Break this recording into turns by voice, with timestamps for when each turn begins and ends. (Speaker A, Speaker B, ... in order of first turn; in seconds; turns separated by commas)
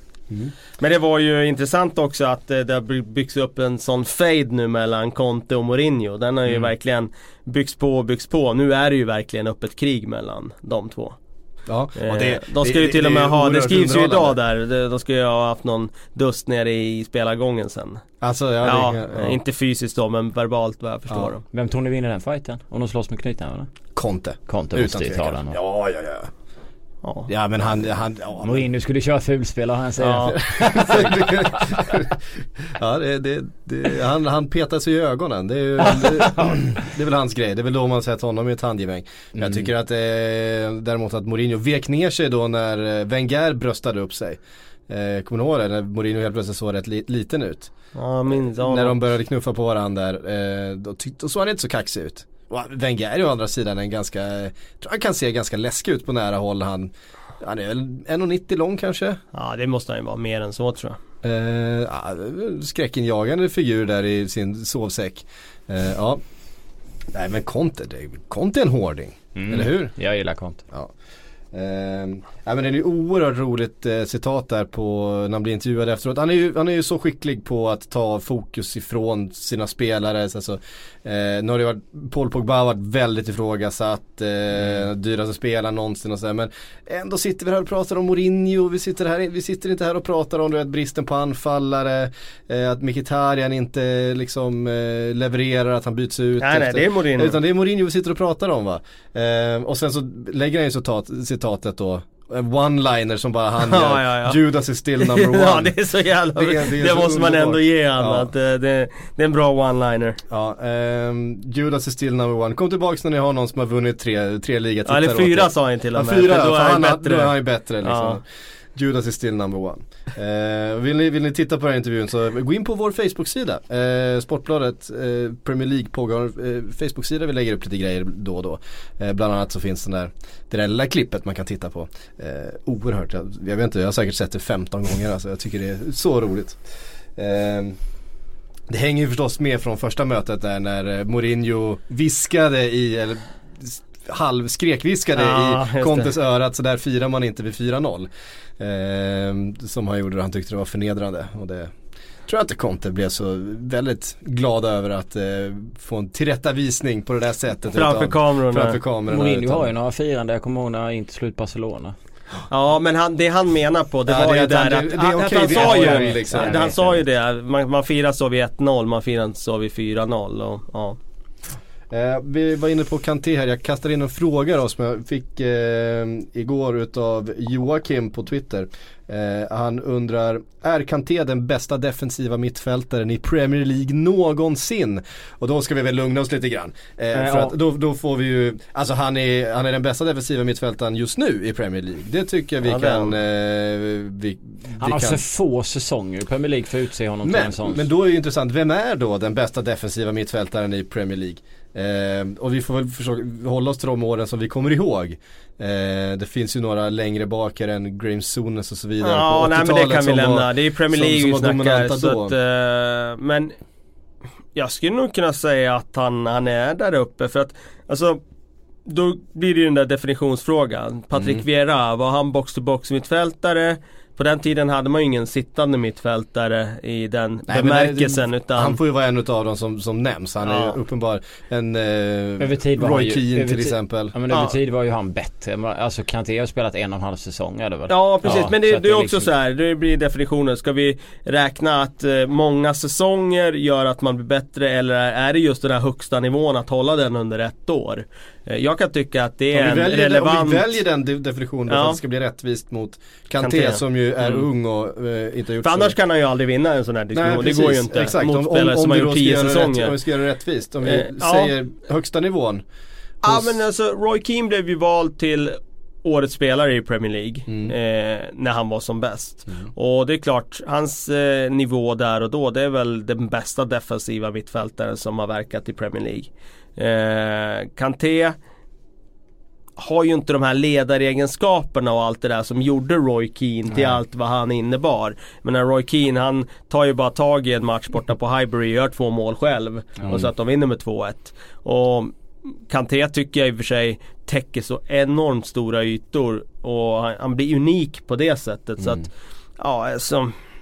Speaker A: 0.8-11.2, Speaker B: 11.7-14.4, Speaker A: 12.0-18.0, Speaker B: 18.2-19.4, Speaker A: 18.6-21.4, Speaker C: 21.5-23.7, Speaker B: 24.0-26.3, Speaker C: 24.5-25.6, Speaker A: 27.0-27.3, Speaker B: 27.3-28.6, Speaker C: 28.4-31.9, Speaker A: 30.0-30.4, Speaker B: 30.3-47.7, Speaker C: 35.8-36.6, Speaker C: 39.4-39.7, Speaker A: 48.0-49.0, Speaker B: 48.3-59.2, Speaker A: 59.3-61.0, Speaker B: 61.2-66.2, Speaker B: 67.1-69.9, Speaker C: 69.3-70.6, Speaker B: 71.5-105.8, Speaker A: 96.4-97.4, Speaker A: 103.6-104.4, Speaker A: 105.0-110.2, Speaker B: 106.3-108.3, Speaker B: 110.3-118.2, Speaker A: 114.9-118.2, Speaker B: 118.8-136.6, Speaker B: 137.2-137.8, Speaker B: 138.7-151.7, Speaker A: 145.1-146.1, Speaker B: 152.3-159.7, Speaker A: 157.7-158.8, Speaker C: 159.1-161.9, Speaker A: 162.5-171.0, Speaker B: 164.1-166.8, Speaker C: 165.6-166.9, Speaker B: 171.9-195.2, Speaker C: 187.1-187.6, Speaker A: 192.6-193.2, Speaker C: 194.8-197.9, Speaker B: 197.2-212.3, Speaker A: 209.0-213.6, Speaker A: 214.6-218.2, Speaker A: 218.9-228.8, Speaker B: 221.1-221.4, Speaker B: 227.5-234.2, Speaker A: 230.4-230.8, Speaker C: 232.4-239.3, Speaker A: 234.3-234.6, Speaker A: 237.9-250.8, Speaker B: 249.5-255.9, Speaker A: 251.7-252.0, Speaker A: 253.4-254.5, Speaker A: 255.6-260.0, Speaker B: 257.1-262.6, Speaker A: 260.8-261.6, Speaker B: 263.2-263.6, Speaker A: 263.2-278.4, Speaker B: 267.5-267.8, Speaker A: 279.8-292.1, Speaker A: 292.7-300.3, Speaker B: 298.8-299.1